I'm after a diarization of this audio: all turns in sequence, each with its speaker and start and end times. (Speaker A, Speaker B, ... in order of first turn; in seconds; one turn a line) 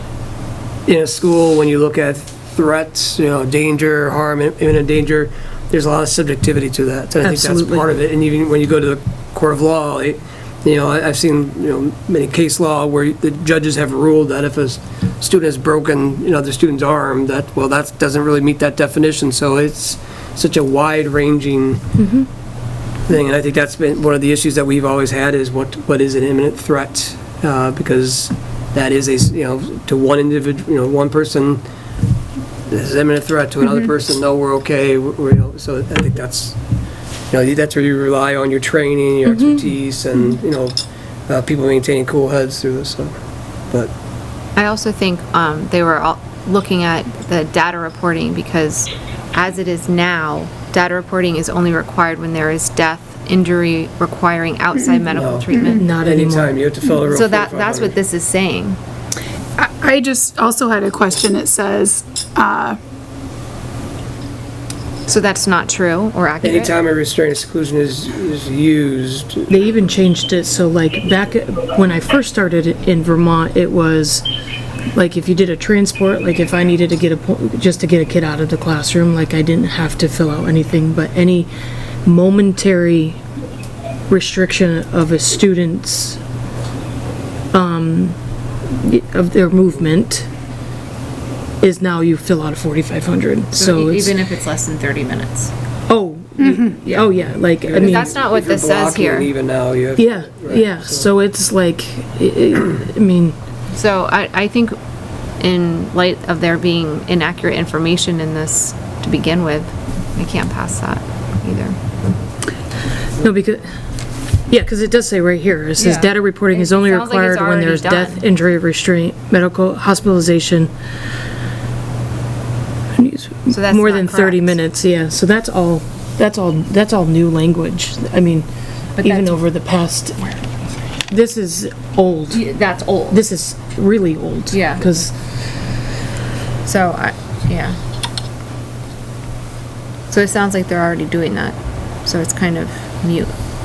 Speaker A: 0.8-21.9
Speaker B: 7.2-7.8
Speaker B: 22.0-22.3
Speaker A: 23.1-31.6
Speaker A: 32.7-36.6
Speaker A: 37.3-43.9
Speaker B: 39.3-39.7
Speaker C: 44.5-55.8
Speaker A: 55.1-58.0
Speaker B: 55.7-56.5
Speaker C: 57.1-58.8
Speaker D: 59.6-62.8
Speaker C: 65.1-66.7
Speaker A: 66.4-69.5
Speaker B: 69.5-74.3
Speaker B: 74.9-81.5
Speaker B: 82.0-83.2
Speaker B: 84.1-86.2
Speaker B: 87.5-88.2
Speaker B: 88.7-90.3
Speaker B: 91.6-94.2
Speaker C: 93.5-95.5
Speaker B: 95.9-98.1
Speaker A: 97.6-101.1
Speaker C: 97.7-99.3
Speaker B: 100.0-103.3
Speaker C: 103.7-104.8
Speaker C: 105.4-111.8
Speaker B: 113.2-113.7
Speaker B: 114.5-120.7
Speaker C: 115.8-118.2
Speaker B: 123.0-128.5
Speaker C: 123.5-124.5
Speaker C: 129.0-129.4
Speaker B: 129.0-130.2
Speaker B: 131.1-132.5
Speaker C: 132.3-133.2
Speaker B: 133.1-135.1
Speaker C: 134.5-134.8
Speaker C: 136.6-137.8
Speaker C: 140.1-143.3